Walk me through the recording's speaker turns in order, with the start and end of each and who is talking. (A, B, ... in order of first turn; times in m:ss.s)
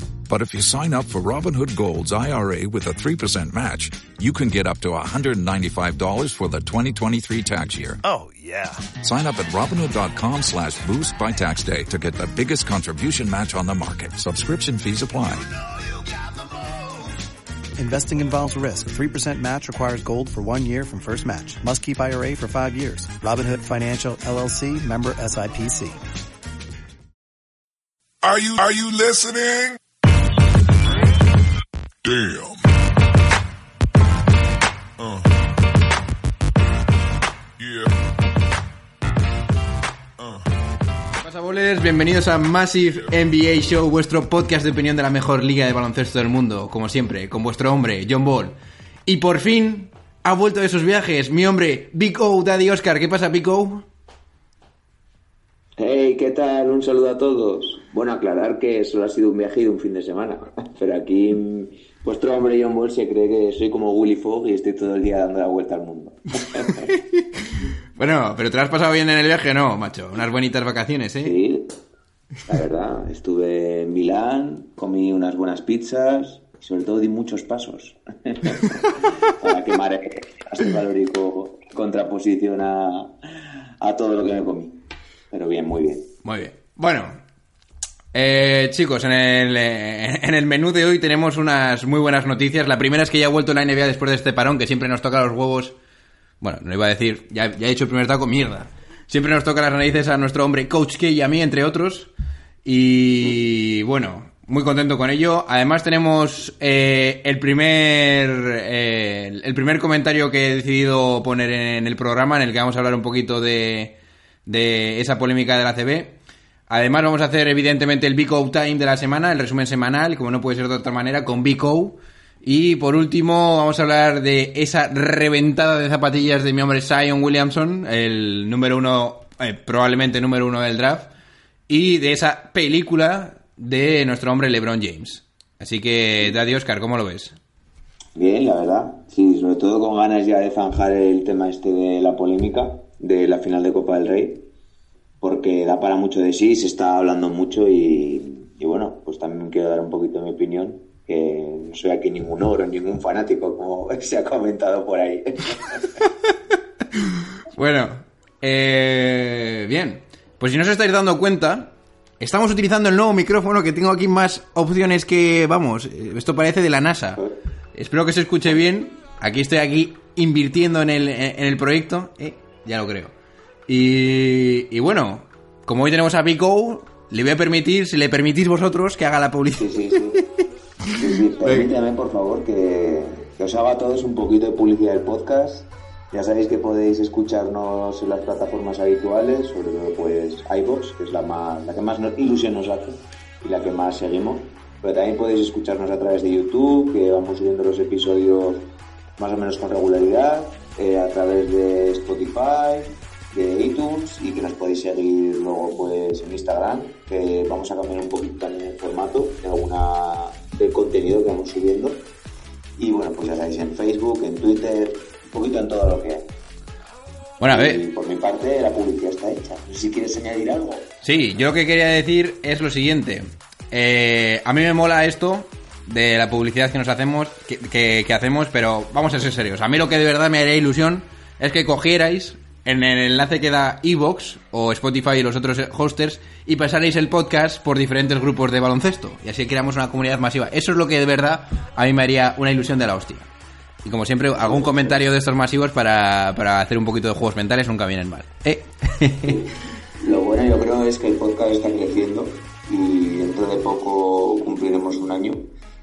0:00.3-0:08.0 A
0:08.0-0:08.8 B
0:09.0-0:15.5 A
0:17.8-0:26.0 B
0:28.2-0:29.8 C
0:32.0-0:32.6 C
0:35.0-0:35.3 C
0:37.6-0:37.9 C
0:40.2-0:40.4 C
0:41.2-0:53.9 D
0:55.8-1:06.9 E
1:06.7-1:11.4 D
1:11.2-1:11.7 E
1:12.4-1:24.8 E
1:25.3-1:26.1 E
1:26.2-1:27.2 D
1:28.1-1:35.8 D
1:36.4-1:42.1 D
1:42.6-1:56.2 D
1:56.7-2:11.1 D
2:11.7-2:17.4 D
2:18.2-2:24.5 E
2:25.2-2:36.0 E
2:36.9-2:53.1 D
2:53.7-3:01.7 D
2:59.6-3:00.2 E
3:01.0-3:18.7 E
3:19.2-3:32.0 E
3:32.8-3:36.2 E
3:37.4-3:37.8 D
3:37.5-3:40.9 E
3:41.0-4:03.3 D
4:03.8-4:09.5 D
4:10.0-4:15.5 E